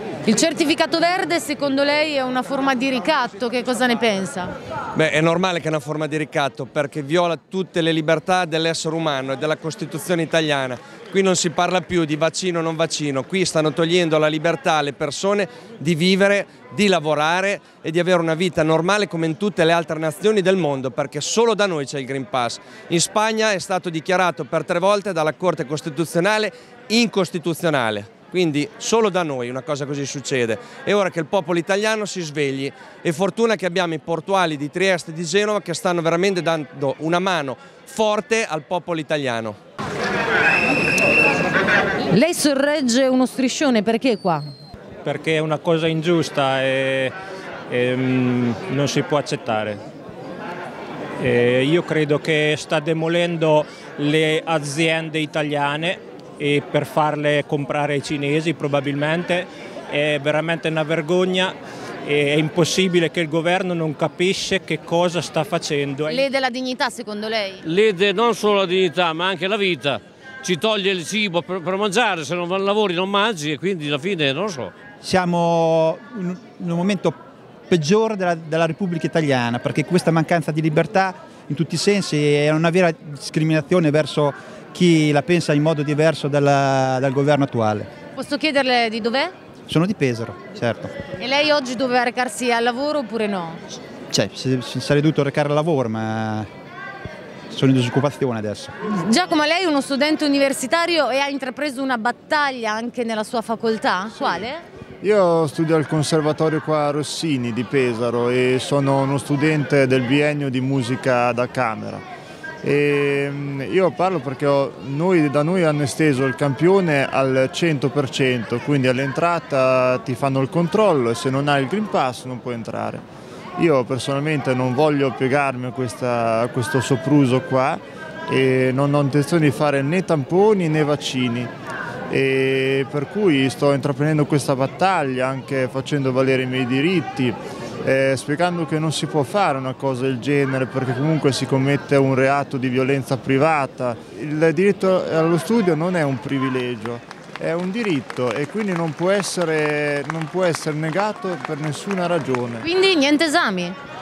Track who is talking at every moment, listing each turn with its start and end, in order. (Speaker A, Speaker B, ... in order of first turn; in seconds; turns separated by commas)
Speaker A: 0.3-4.5, Speaker B: 5.0-39.6, Speaker A: 42.1-44.5, Speaker C: 45.0-47.1, Speaker C: 47.7-49.8, Speaker C: 51.2-66.2, Speaker A: 66.1-67.6, Speaker D: 67.7-74.7, Speaker E: 75.0-87.9, Speaker A: 88.2-89.3, Speaker E: 89.7-91.0, Speaker A: 91.2-93.6, Speaker E: 94.1-96.5, Speaker E: 97.5-98.7, Speaker A: 99.0-104.6, Speaker F: 105.0-112.0, Speaker F: 112.6-123.0, Speaker F: 123.6-131.5, Speaker F: 132.1-152.7, Speaker A: 152.6-153.8